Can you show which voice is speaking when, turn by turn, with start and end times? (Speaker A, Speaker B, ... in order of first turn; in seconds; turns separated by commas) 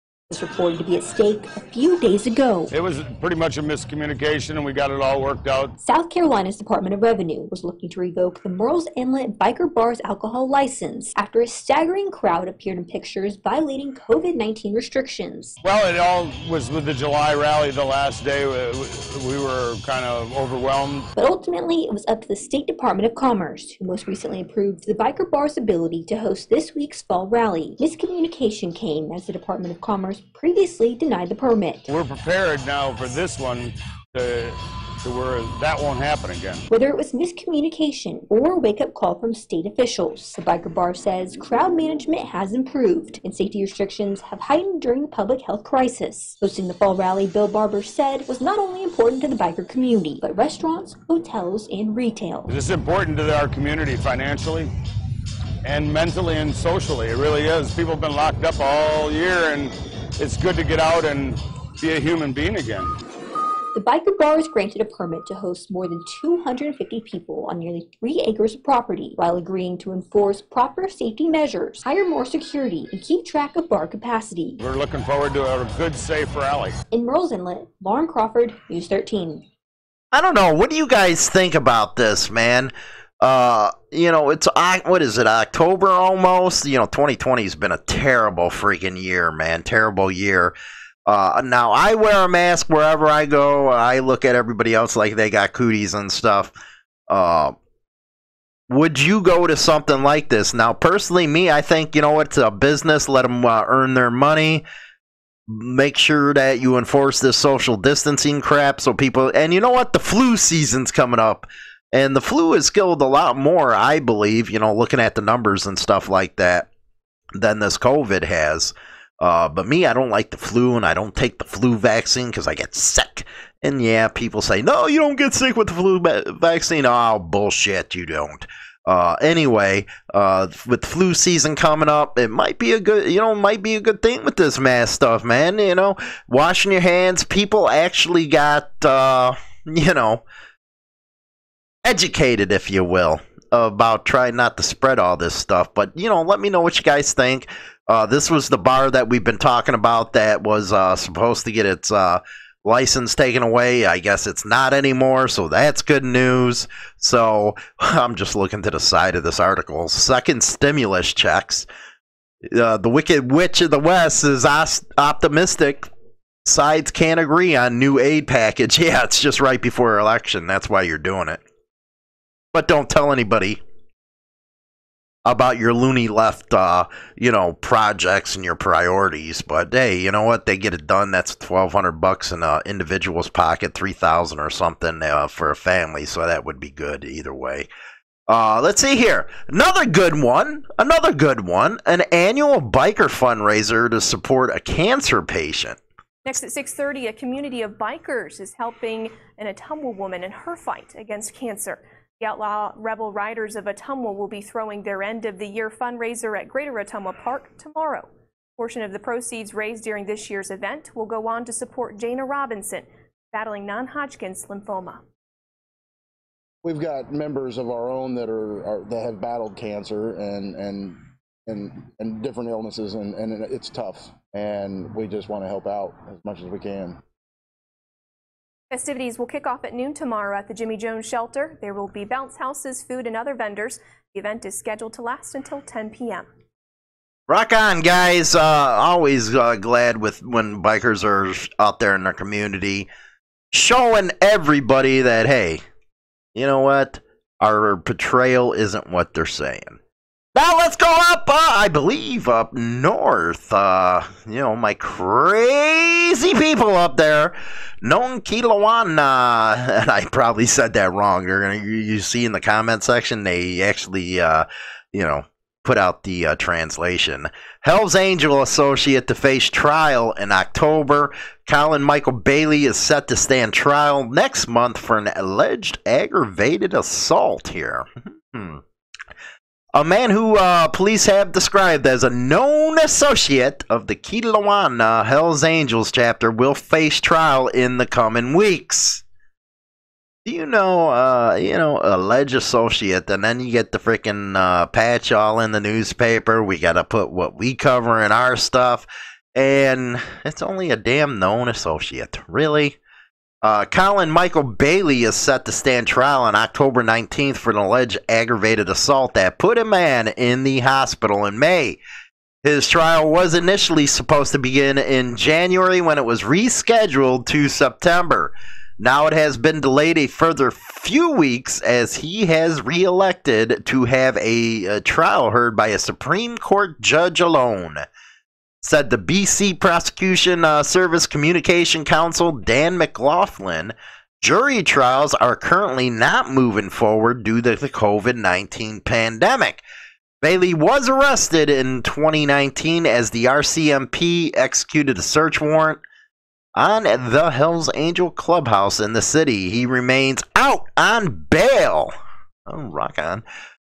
Speaker A: 0.3-2.7, Speaker B: 2.7-5.7, Speaker A: 5.8-15.6, Speaker B: 15.6-21.1, Speaker A: 21.2-31.9, Speaker B: 31.9-36.7, Speaker A: 36.7-52.5, Speaker B: 52.5-54.7, Speaker B: 55.6-63.0, Speaker A: 63.7-74.6, Speaker B: 74.6-76.8, Speaker A: 76.9-79.4, Speaker C: 80.1-90.5, Speaker C: 91.1-96.5, Speaker C: 97.1-97.5, Speaker C: 98.7-104.7, Speaker C: 105.5-116.7, Speaker C: 117.4-140.2, Speaker C: 141.8-161.7, Speaker C: 162.5-165.9, Speaker C: 166.4-171.4, Speaker C: 172.5-173.6, Speaker C: 175.2-187.7, Speaker C: 188.3-195.8, Speaker D: 196.2-215.0, Speaker E: 216.6-227.0, Speaker D: 228.7-236.3, Speaker C: 237.3-242.9, Speaker C: 243.5-245.6, Speaker C: 246.3-249.8, Speaker C: 250.3-278.6, Speaker C: 279.7-289.0, Speaker C: 290.2-302.8, Speaker C: 303.4-311.8, Speaker C: 312.4-327.9, Speaker C: 328.6-339.6, Speaker C: 340.2-345.8, Speaker C: 346.6-351.9, Speaker C: 352.5-353.2